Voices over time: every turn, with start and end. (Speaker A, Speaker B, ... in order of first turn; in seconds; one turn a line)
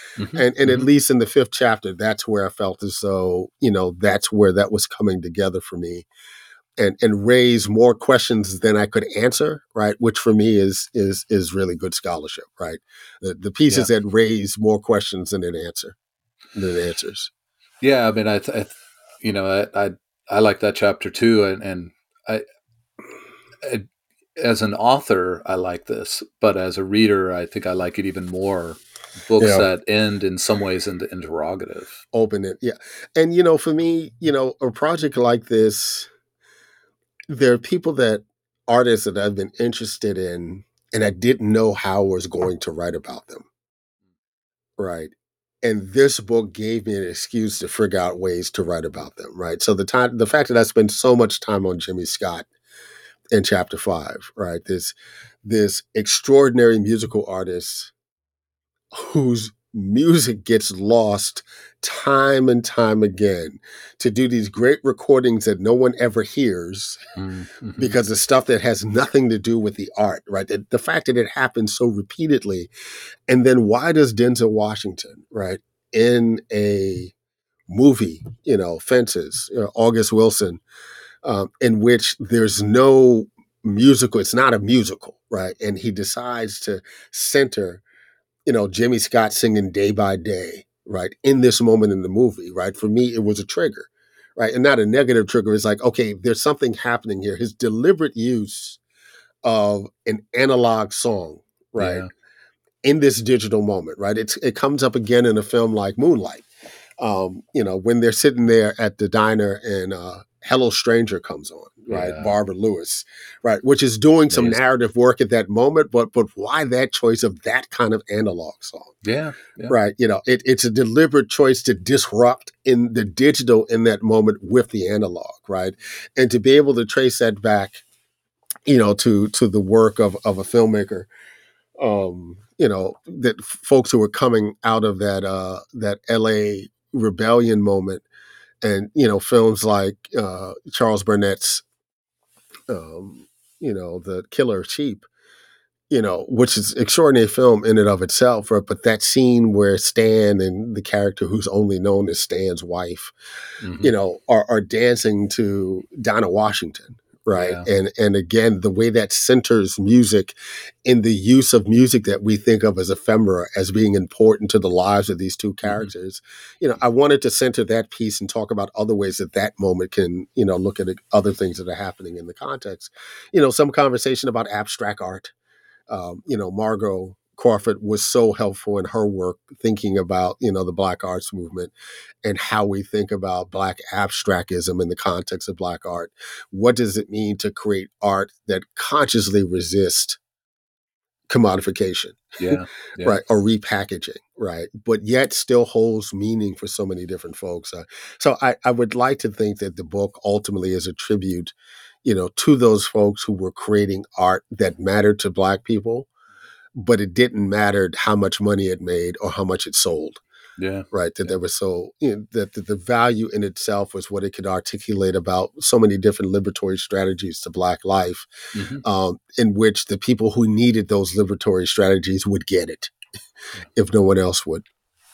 Speaker A: 0.2-0.9
Speaker B: 0.3-6.1
Speaker B: 6.8-15.9
Speaker B: 16.5-17.3
Speaker A: 17.8-22.4
Speaker A: 24.4-32.0
Speaker B: 29.4-29.6
Speaker B: 32.1-36.1
Speaker B: 37.3-43.5
Speaker B: 44.8-45.1
Speaker B: 45.6-52.5
Speaker B: 53.3-57.9
Speaker B: 58.9-67.0
Speaker A: 67.2-67.9
Speaker B: 67.8-72.7
Speaker B: 73.3-77.1
Speaker B: 77.7-80.6
Speaker B: 81.2-87.8
Speaker B: 88.5-98.8
Speaker B: 99.4-102.0
Speaker A: 101.8-102.1
Speaker B: 102.8-106.5
Speaker B: 107.0-118.9
Speaker A: 111.9-112.3
Speaker A: 114.3-114.6
Speaker A: 119.0-119.8
Speaker B: 119.7-127.8
Speaker B: 128.7-131.1
Speaker B: 131.8-138.0
Speaker B: 138.6-141.6
Speaker B: 142.7-145.1
Speaker B: 145.9-153.1
Speaker A: 153.6-153.9
Speaker B: 153.8-175.3
Speaker A: 157.3-157.7
Speaker A: 165.6-165.9
Speaker B: 175.9-190.2
Speaker B: 191.3-192.2
Speaker A: 192.4-193.2
Speaker B: 193.0-206.1
Speaker B: 206.7-210.2
Speaker A: 210.6-211.3
Speaker B: 210.9-218.3
Speaker A: 218.5-218.8
Speaker B: 218.8-222.9
Speaker B: 223.7-224.6